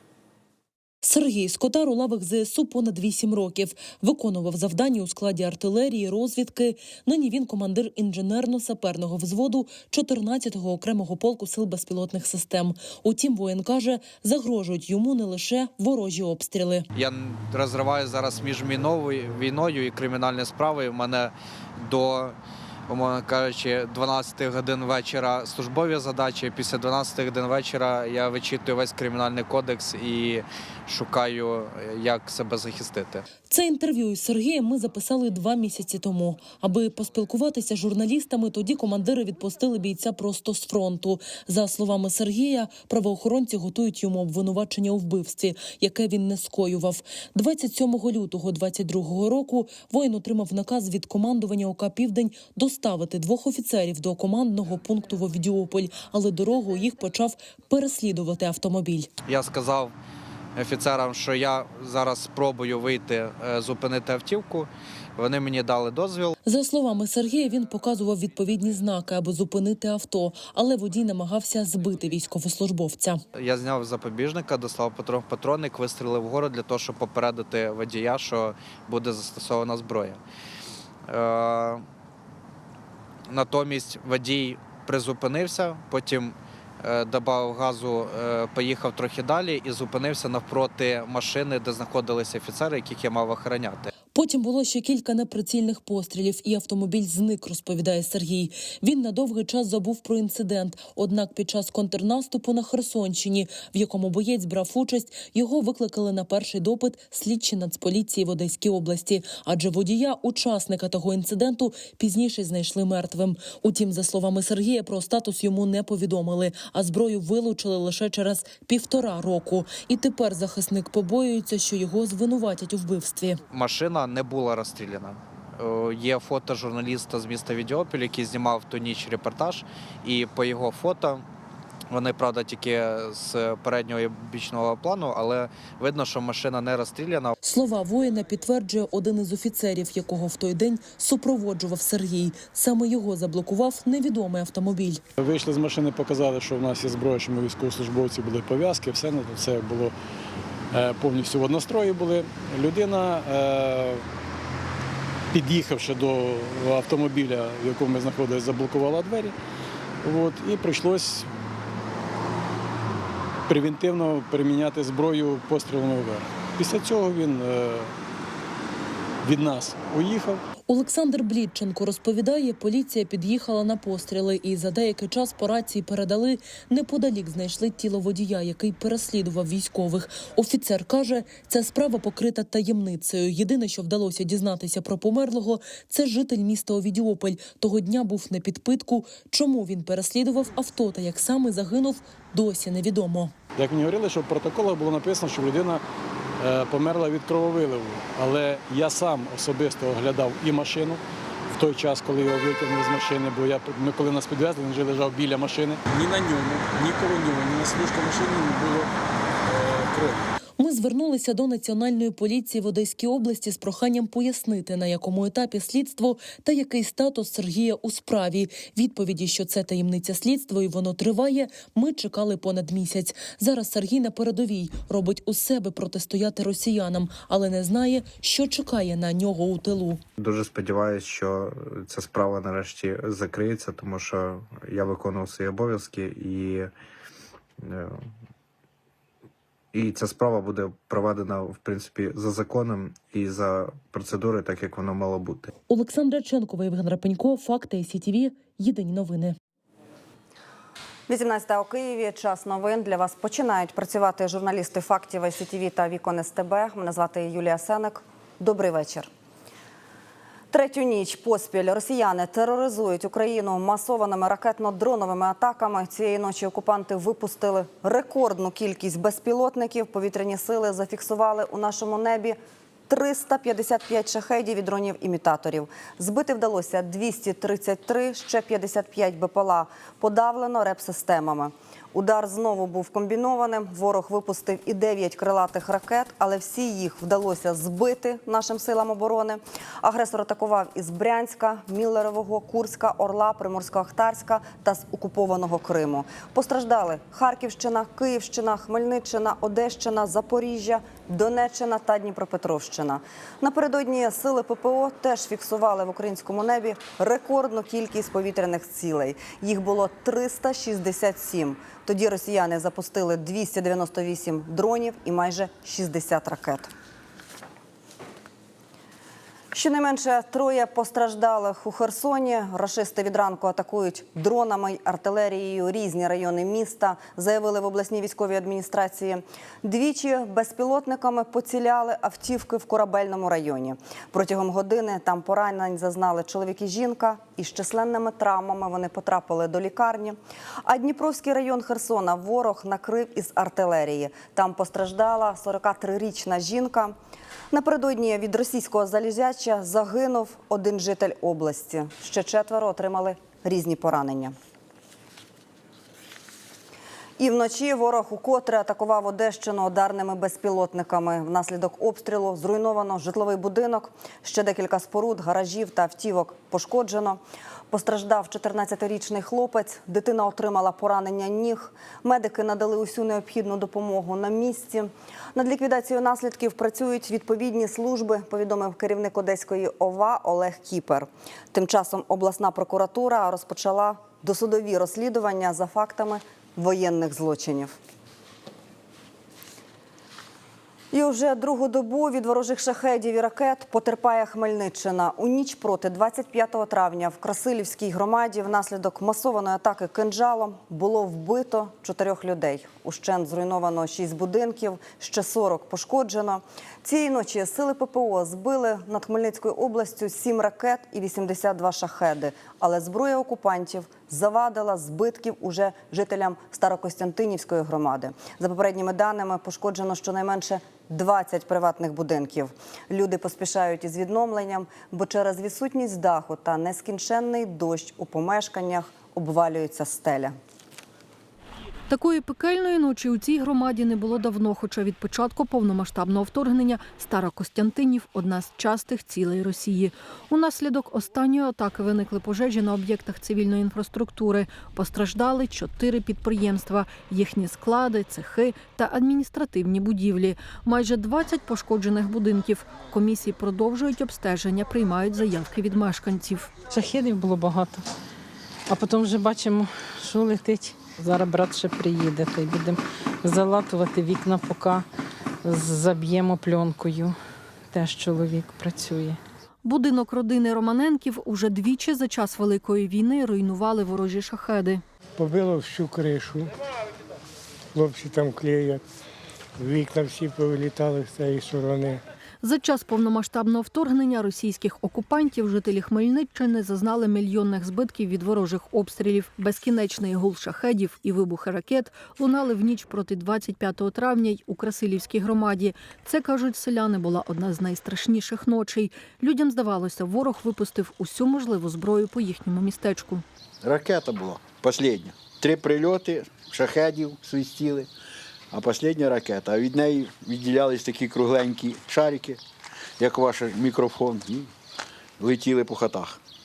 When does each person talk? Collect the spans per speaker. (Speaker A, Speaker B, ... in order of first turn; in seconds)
Speaker A: 1.0-16.9, 33.5-59.1, 66.4-73.2, 94.1-123.4, 137.4-145.0, 170.7-193.3, 210.6-230.0, 245.7-249.4
Speaker B: 16.9-22.4, 22.9-33.3, 59.3-59.9, 60.5-66.3, 73.3-80.2, 81.1-81.8, 83.3-93.9, 123.5-131.2, 131.9-137.3
Speaker C: 145.2-149.9, 150.7-154.0, 155.3-159.3, 160.0-161.3, 163.5-167.9, 169.2-170.4, 193.6-195.8, 196.4-208.9, 209.4-210.3
Speaker D: 230.2-236.7, 237.6-238.1, 239.7-245.5
Speaker E: 251.1-259.1, 260.5-272.4, 272.9-316.7, 319.5-346.9, 347.5-354.3, 357.2-387.8, 390.9-430.3
Speaker F: 431.9-456.5, 469.6-474.8, 482.4-503.2
Speaker G: 456.7-457.8, 458.7-464.9, 465.4-467.2, 467.7-469.2
Speaker H: 475.2-476.5, 477.7-478.8, 479.6-482.0
Speaker I: 503.6-507.9, 508.5-512.4, 513.0-514.5, 515.2-516.2